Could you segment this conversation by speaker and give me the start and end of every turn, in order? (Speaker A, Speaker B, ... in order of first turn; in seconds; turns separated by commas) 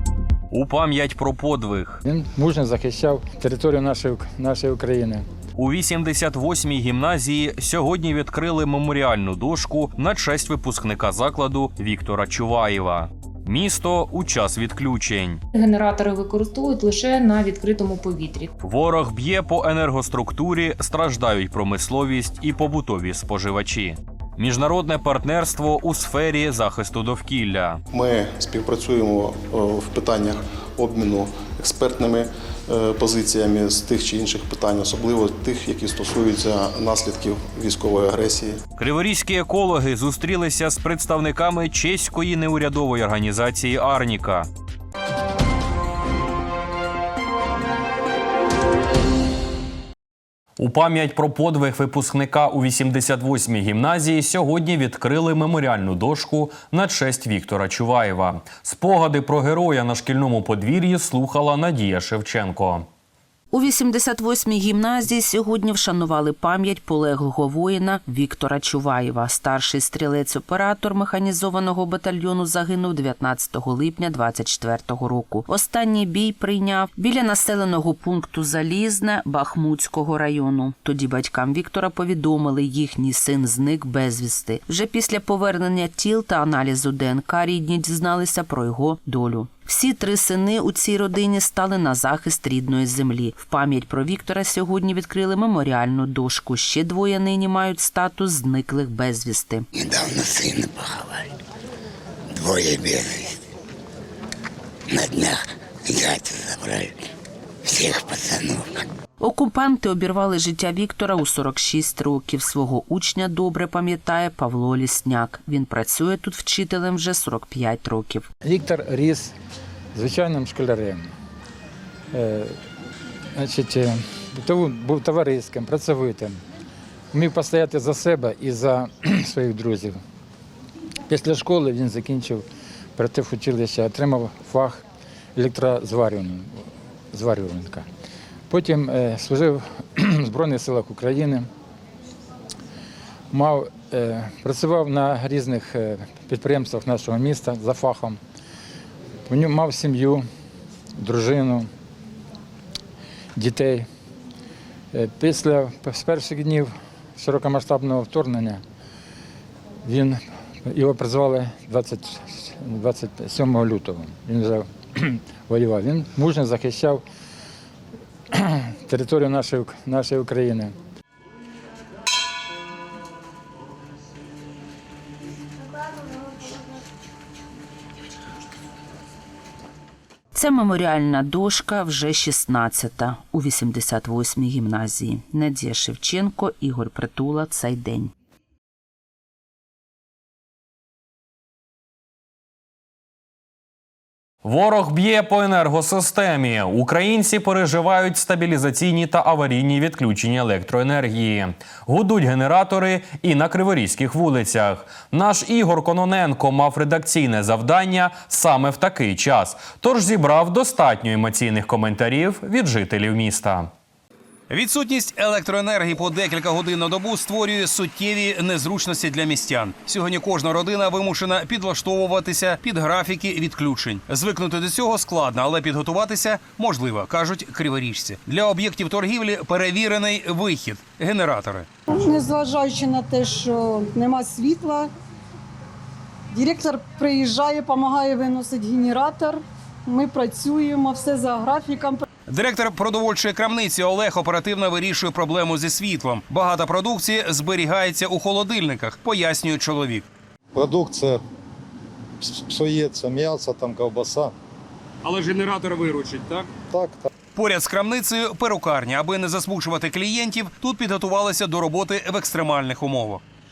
Speaker A: 0.5-2.0, Speaker B: 2.0-5.2, Speaker A: 5.5-15.4, Speaker C: 15.5-18.5, Speaker A: 18.6-27.8, Speaker D: 27.9-38.6, Speaker A: 38.8-44.5, Speaker A: 50.6-62.9, Speaker E: 63.5-99.7, Speaker F: 99.8-101.3, Speaker F: 102.3-103.4, Speaker F: 104.9-107.0, Speaker F: 107.6-108.8, Speaker E: 109.2-118.2, Speaker B: 118.4-119.3, Speaker B: 119.9-121.1, Speaker B: 122.1-122.5, Speaker B: 123.3-126.4, Speaker B: 127.1-130.0, Speaker B: 131.1-132.4, Speaker B: 132.9-134.8, Speaker B: 135.3-136.6, Speaker B: 137.1-137.8, Speaker B: 138.5-141.5, Speaker B: 143.3-148.2, Speaker B: 149.3-150.2, Speaker B: 151.0-151.7, Speaker B: 153.3-153.9, Speaker B: 154.9-158.6, Speaker B: 159.8-167.0, Speaker B: 168.3-170.7, Speaker E: 180.3-188.1, Speaker A: 194.4-213.7, Speaker G: 214.5-231.7, Speaker H: 231.9-234.9, Speaker H: 236.3-242.0, Speaker G: 242.3-250.0, Speaker I: 250.6-251.2, Speaker I: 252.2-254.3, Speaker I: 256.7-257.0, Speaker G: 257.3-263.2